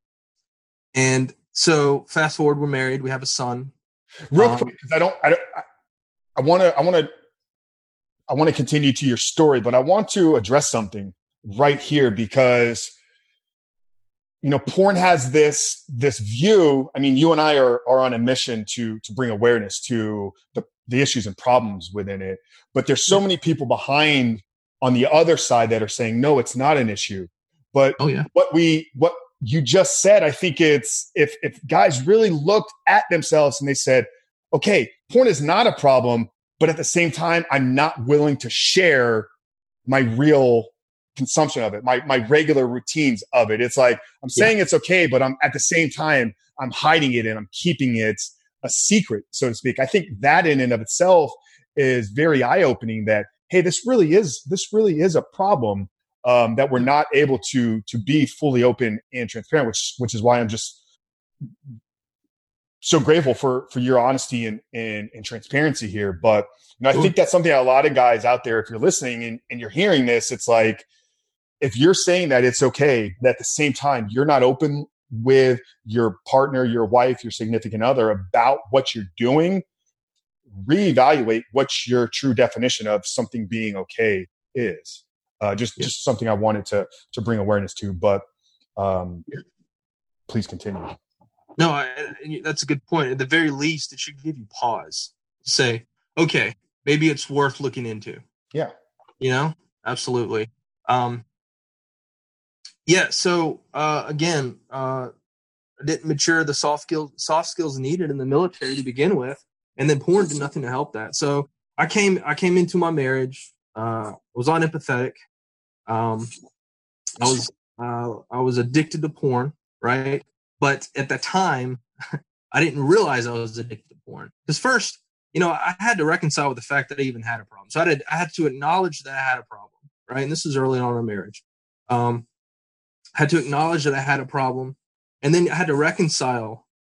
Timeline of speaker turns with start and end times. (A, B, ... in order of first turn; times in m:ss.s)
0:00.9-0:03.7 A
0:04.3-0:05.6 B
0:04.4-0:04.7 A
0:06.4-0:07.1 B
0:08.3-0:12.9 B
0:14.4-0:39.3 B
0:28.0-0:28.3 A
0:39.9-1:00.8 B
1:02.8-1:10.8 B
1:11.6-1:19.6 B
1:20.6-1:28.2 B
1:28.8-1:29.2 B
1:30.3-1:30.9 B
1:31.6-1:38.2 A
1:39.2-1:41.2 A
1:42.9-1:45.1 A
1:45.8-1:55.2 A
1:55.9-1:56.3 A
1:57.2-2:01.8 A
2:02.5-2:12.2 A
2:13.2-2:16.6 A